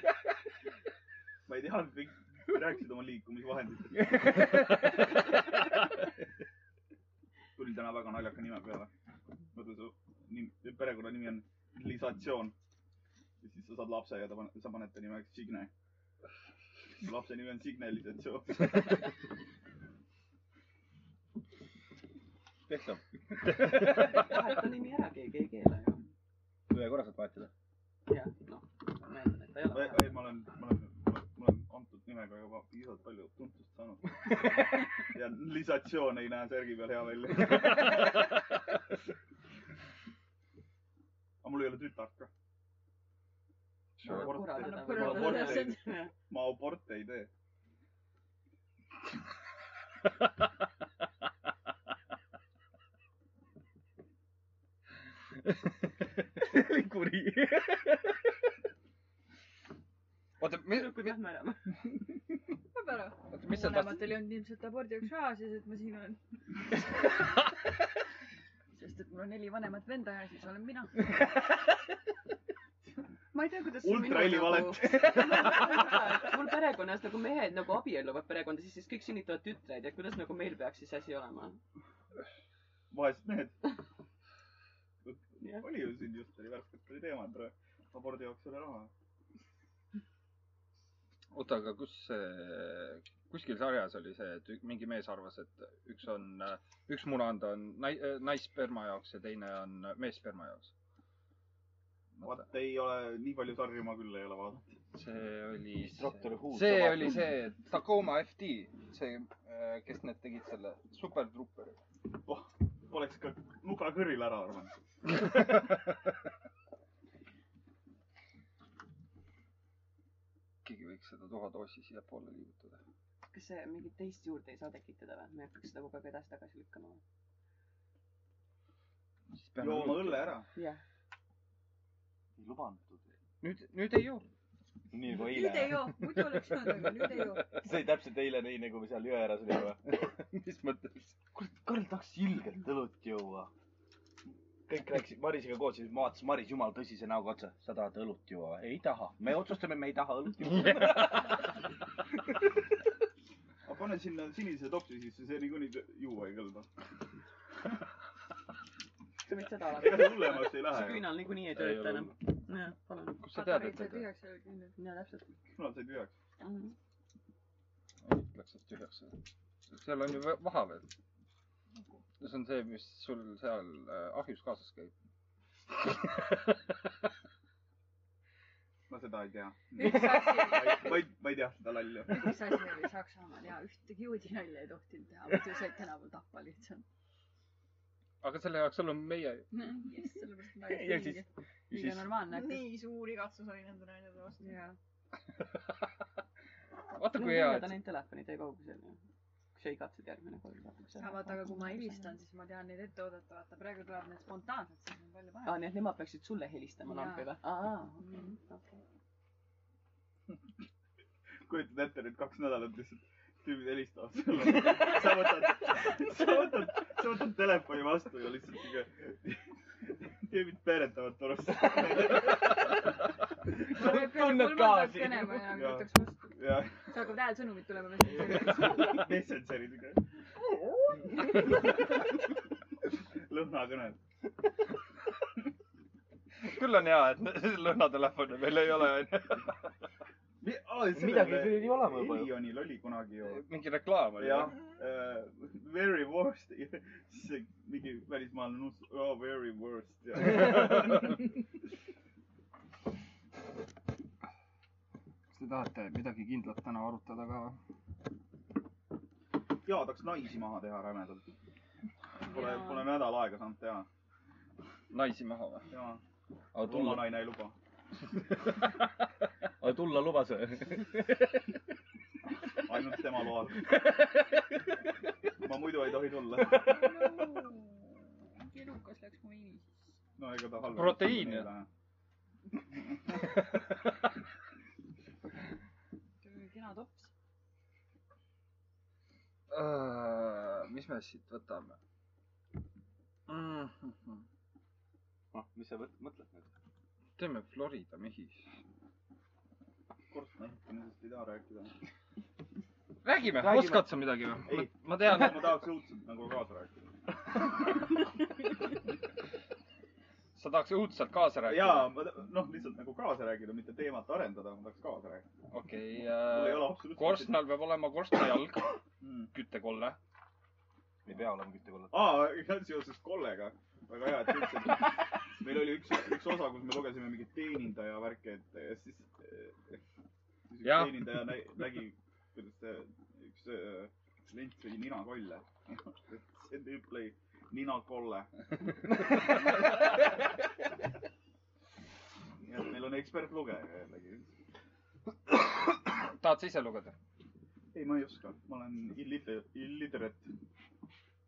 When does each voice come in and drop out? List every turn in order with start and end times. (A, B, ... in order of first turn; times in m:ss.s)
0:01.5-0:04.5 A
0:07.6-0:08.9 A
0:09.5-0:12.5 A
0:13.4-0:15.7 A
0:17.0-0:19.0 A
0:22.7-0:23.7 B
0:23.6-0:23.9 C
0:23.8-0:26.1 D
0:26.7-0:27.5 B
0:28.1-0:30.2 D
0:29.7-0:38.0 A
0:41.4-0:42.3 A
0:44.0-0:44.7 C
0:44.0-0:46.1 D
0:44.1-0:47.3 A
0:44.5-0:46.0 E
0:56.4-0:58.4 B
1:00.4-1:01.2 C
1:00.7-1:01.7 D
1:02.7-1:06.2 E
1:03.3-1:04.2 C
1:08.7-1:11.2 E
1:13.3-1:21.6 D
1:13.8-1:15.6 A
1:22.9-1:23.6 A
1:25.0-1:28.9 A
1:25.4-1:25.7 D
1:31.3-1:40.7 C
1:42.2-1:44.7 A
1:44.9-1:51.8 C
1:45.8-1:47.3 B
1:52.1-1:54.7 A
2:00.6-2:02.8 C
2:03.3-2:07.0 D
2:09.4-2:10.4 C
2:09.6-2:10.5 A
2:10.6-2:10.8 D
2:12.4-2:13.1 B
2:13.4-2:14.2 C
2:14.9-2:16.0 B
2:15.2-2:17.6 E
2:17.6-2:20.1 B
2:20.0-2:21.2 C
2:21.4-2:23.5 B
2:24.7-2:31.3 B
2:30.5-2:31.4 C
2:33.6-2:36.7 A
2:39.2-2:43.2 D
2:39.7-2:41.1 A
2:41.5-2:42.2 C
2:43.2-2:44.1 C
2:43.3-2:44.8 E
2:44.8-2:45.3 D
2:45.5-2:46.2 A
2:46.4-2:46.8 D
2:48.0-2:50.9 C
2:52.2-2:54.9 C
2:56.2-2:56.5 C
2:58.9-3:02.3 A
2:59.8-3:01.0 E
3:02.1-3:06.8 E
3:08.2-3:09.5 C
3:09.5-3:12.8 E
3:10.7-3:12.1 B
3:12.3-3:14.6 F
3:14.4-3:14.8 E
3:17.0-3:17.8 C
3:17.1-3:19.0 D
3:19.6-3:22.1 D
3:21.0-3:25.6 E
3:25.4-3:28.8 D
3:26.9-3:27.3 E
3:28.0-3:28.4 E
3:31.4-3:42.6 A
3:43.7-3:45.6 B
3:43.7-3:49.0 E
3:45.5-3:46.9 A
3:48.2-3:50.0 A
3:53.2-3:54.0 A
3:56.4-3:59.5 C
4:00.4-4:03.4 A
4:00.9-4:02.4 B
4:03.2-4:04.6 C
4:04.2-4:11.3 A
4:15.3-4:17.6 C
4:19.6-4:21.2 A
4:22.3-4:23.9 A
4:22.3-4:22.9 D
4:24.9-4:25.7 C
4:25.7-4:26.0 A
4:26.6-4:27.1 B
4:26.6-4:27.6 A
4:29.6-4:31.5 B
4:32.6-4:33.8 A
4:33.6-4:34.8 B
4:35.4-4:36.9 A
4:36.6-4:40.0 E
4:40.2-4:41.7 A
4:40.6-4:41.5 C
4:46.2-4:47.1 E
4:49.5-4:51.8 C
4:53.3-4:54.2 C
4:55.3-4:56.5 B
4:57.2-4:58.4 C
5:00.1-5:01.8 A
5:03.0-5:05.6 C
5:03.4-5:03.9 B
5:04.5-5:06.8 A
5:10.4-5:12.0 C
5:11.5-5:15.3 A
5:15.5-5:18.8 C
5:16.2-5:17.5 A
5:19.0-5:19.3 A
5:19.3-5:20.0 C
5:21.1-5:22.1 B
5:21.9-5:29.8 A
5:30.5-5:38.3 A
5:30.6-5:31.4 C
5:42.4-5:44.3 A
5:46.0-5:47.0 C
5:47.7-5:50.3 A